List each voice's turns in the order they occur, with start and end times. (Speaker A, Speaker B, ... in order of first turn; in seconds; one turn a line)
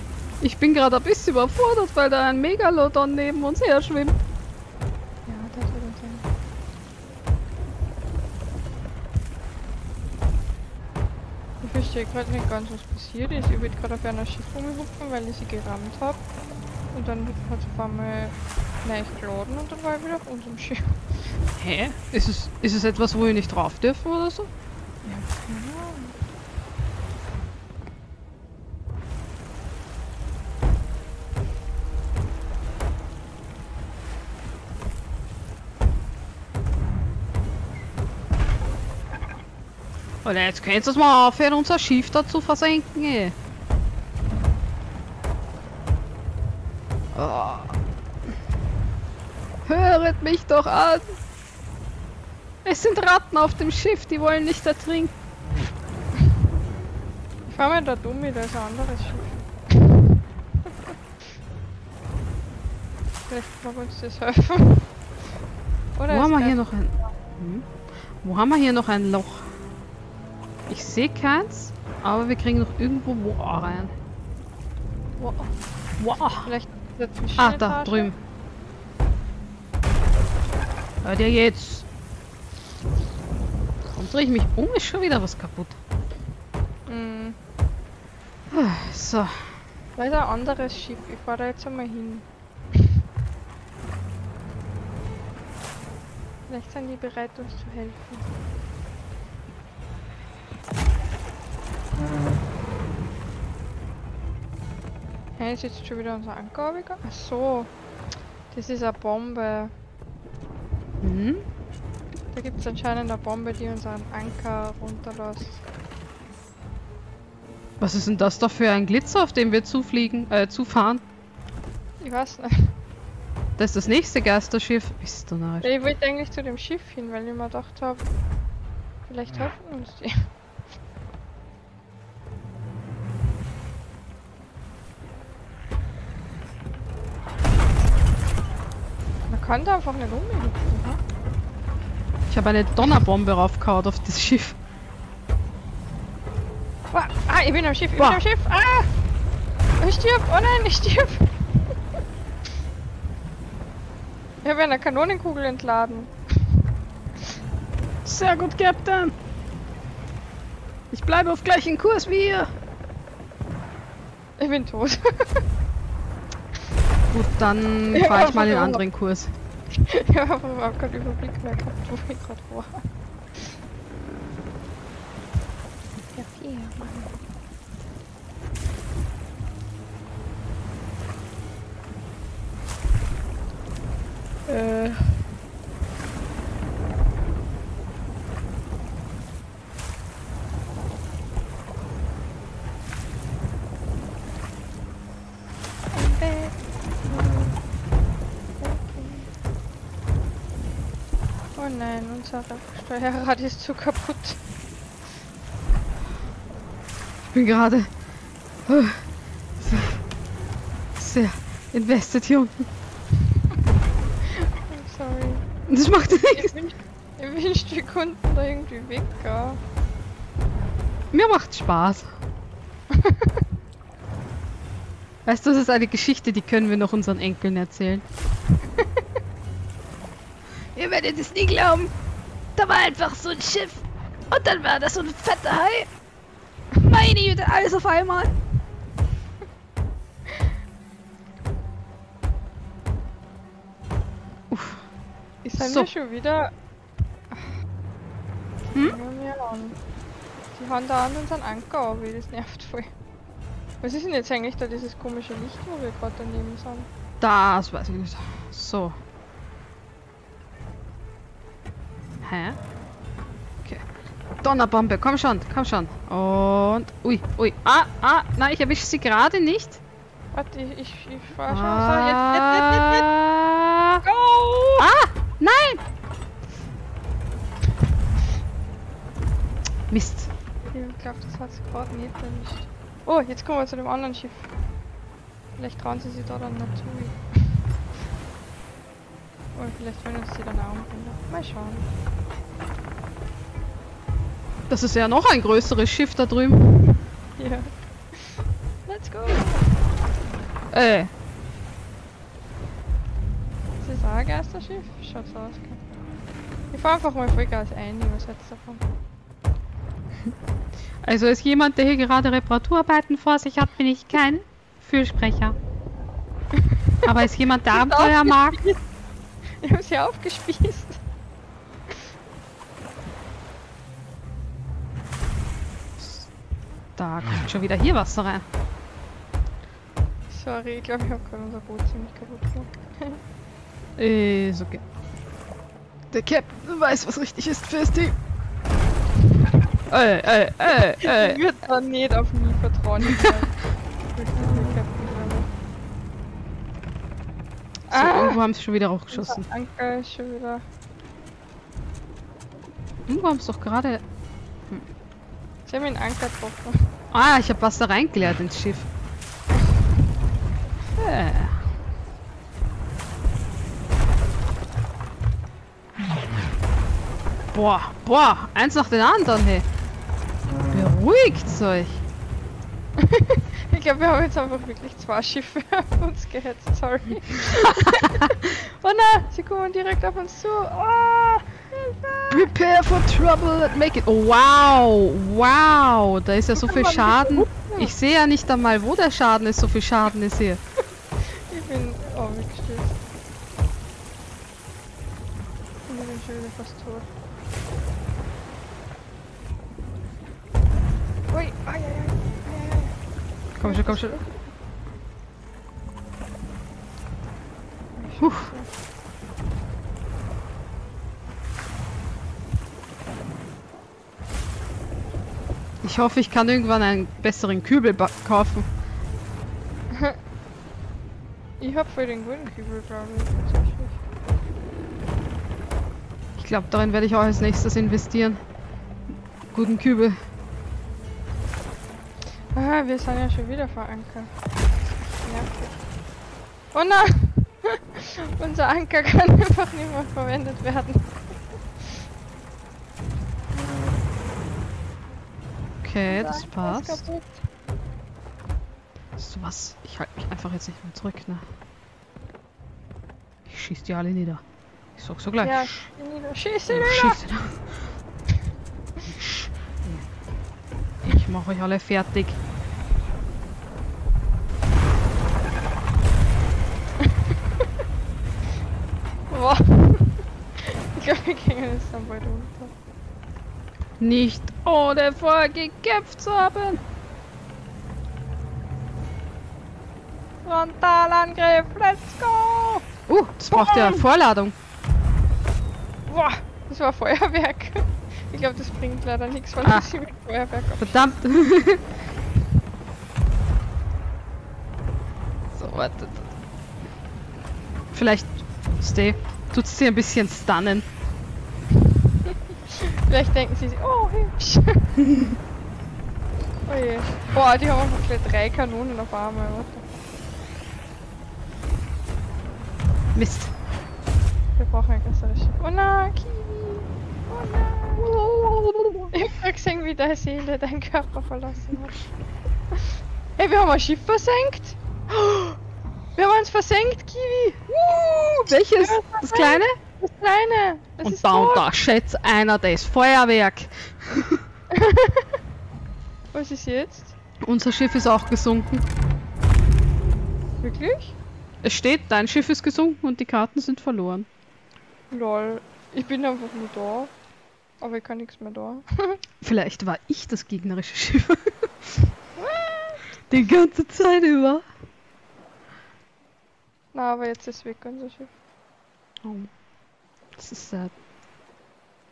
Speaker A: 0.4-4.2
Speaker B: 5.3-6.3
Speaker B: 11.6-16.2
Speaker B: 16.9-21.3
Speaker A: 21.6-24.5
Speaker B: 25.0-26.2
Speaker A: 40.2-43.4
Speaker A: 47.1-47.8
Speaker A: 49.6-51.1
Speaker A: 52.6-55.1
Speaker B: 57.5-60.0
Speaker B: 63.3-65.2
Speaker B: 66.0-66.7
Speaker A: 66.1-69.5
Speaker A: 70.7-73.9
Speaker B: 75.2-75.5
Speaker A: 76.0-76.5
Speaker B: 76.4-78.1
Speaker A: 77.4-78.2
Speaker A: 81.0-81.9
Speaker A: 83.9-85.8
Speaker B: 86.9-87.4
Speaker A: 88.5-89.4
Speaker B: 90.0-92.3
Speaker B: 96.5-98.3
Speaker B: 105.4-107.7
Speaker B: 108.5-109.7
Speaker A: 111.0-111.4
Speaker B: 112.3-115.6
Speaker A: 117.8-121.0
Speaker B: 122.0-122.8
Speaker A: 123.6-125.7
Speaker B: 125.6-128.1
Speaker B: 129.1-130.3
Speaker B: 139.3-141.0
Speaker A: 142.3-144.6
Speaker B: 146.9-148.9
Speaker A: 148.0-148.2
Speaker B: 149.8-151.5
Speaker B: 154.4-156.1
Speaker A: 158.1-159.2
Speaker A: 160.9-162.5
Speaker B: 164.4-165.5
Speaker A: 167.1-169.3
Speaker B: 167.9-168.8
Speaker B: 169.8-173.5
Speaker B: 176.1-177.1
Speaker B: 184.5-185.3
Speaker B: 195.9-197.6
Speaker B: 198.6-199.3
Speaker B: 201.6-204.4
Speaker A: 207.3-207.9
Speaker A: 208.7-210.0
Speaker A: 211.0-212.7
Speaker B: 214.7-215.5
Speaker A: 215.7-216.5
Speaker B: 216.1-219.6
Speaker A: 221.1-222.1
Speaker B: 222.9-223.4
Speaker A: 225.2-228.0
Speaker A: 230.8-231.9
Speaker A: 232.6-235.9
Speaker A: 236.8-238.4
Speaker A: 244.5-244.8
Speaker B: 245.4-246.5
Speaker A: 245.6-245.9
Speaker B: 248.7-249.8
Speaker B: 250.5-252.9
Speaker B: 253.8-256.9
Speaker A: 257.2-258.9
Speaker A: 262.2-262.6
Speaker A: 264.4-269.8
Speaker B: 270.3-273.1
Speaker A: 271.5-274.0
Speaker B: 274.0-274.9
Speaker A: 274.8-275.8
Speaker A: 279.9-280.3
Speaker B: 280.6-284.5
Speaker B: 285.6-287.6
Speaker B: 289.5-291.9
Speaker A: 294.7-296.7
Speaker B: 297.4-299.9
Speaker A: 300.7-301.1
Speaker B: 303.8-305.8
Speaker B: 306.7-308.8
Speaker A: 311.0-315.6
Speaker B: 316.6-317.1
Speaker A: 317.0-318.6
Speaker B: 317.7-318.8
Speaker B: 319.6-321.0
Speaker A: 326.0-326.3
Speaker A: 327.0-328.5
Speaker B: 330.3-333.2
Speaker A: 334.0-334.8
Speaker A: 336.1-338.2
Speaker A: 339.9-341.4
Speaker B: 341.0-345.5
Speaker A: 347.9-349.4
Speaker B: 347.9-348.4
Speaker B: 349.1-350.6
Speaker A: 353.1-354.0
Speaker B: 355.7-356.9
Speaker A: 357.1-358.9
Speaker A: 361.0-361.6
Speaker A: 367.5-369.7
Speaker A: 370.7-372.0
Speaker B: 373.0-382.5
Speaker A: 377.6-378.3
Speaker A: 382.3-390.6
Speaker B: 386.6-387.9
Speaker B: 391.2-393.0
Speaker B: 395.9-397.1
Speaker B: 401.3-403.0
Speaker A: 403.6-404.2
Speaker B: 403.6-404.4
Speaker B: 408.0-408.7
Speaker A: 408.2-408.5
Speaker A: 415.8-418.7
Speaker B: 419.9-420.2
Speaker B: 421.6-424.0
Speaker A: 426.4-428.4
Speaker A: 429.5-430.2
Speaker B: 432.5-435.9
Speaker B: 436.7-441.6
Speaker A: 445.8-447.0
Speaker B: 446.1-447.5
Speaker A: 449.2-451.4
Speaker A: 453.5-454.4
Speaker A: 455.0-455.9
Speaker B: 455.4-457.2
Speaker A: 456.7-457.8
Speaker A: 459.1-460.1
Speaker A: 461.0-462.4
Speaker B: 469.3-472.7
Speaker A: 474.0-476.8
Speaker B: 480.4-482.9
Speaker A: 483.1-484.6
Speaker B: 483.5-484.0
Speaker B: 486.1-491.1
Speaker A: 489.6-489.9
Speaker A: 490.8-491.8
Speaker A: 495.6-496.3
Speaker A: 497.9-500.9
Speaker B: 502.7-505.0
Speaker B: 506.7-509.9
Speaker A: 513.1-513.5
Speaker B: 514.6-518.1
Speaker A: 518.0-519.1
Speaker B: 519.1-522.0
Speaker B: 523.4-525.6
Speaker B: 526.2-527.6
Speaker A: 527.7-529.8
Speaker B: 528.8-531.6
Speaker A: 531.0-534.4
Speaker B: 534.7-535.4
Speaker B: 536.3-537.1
Speaker A: 537.4-538.9
Speaker B: 540.6-541.2
Speaker A: 541.6-544.3
Speaker B: 545.1-547.1
Speaker B: 547.8-549.2
Speaker A: 549.4-552.1
Speaker B: 552.4-553.2
Speaker A: 553.3-554.6
Speaker B: 556.9-558.3
Speaker A: 559.2-559.5
Speaker A: 560.4-560.9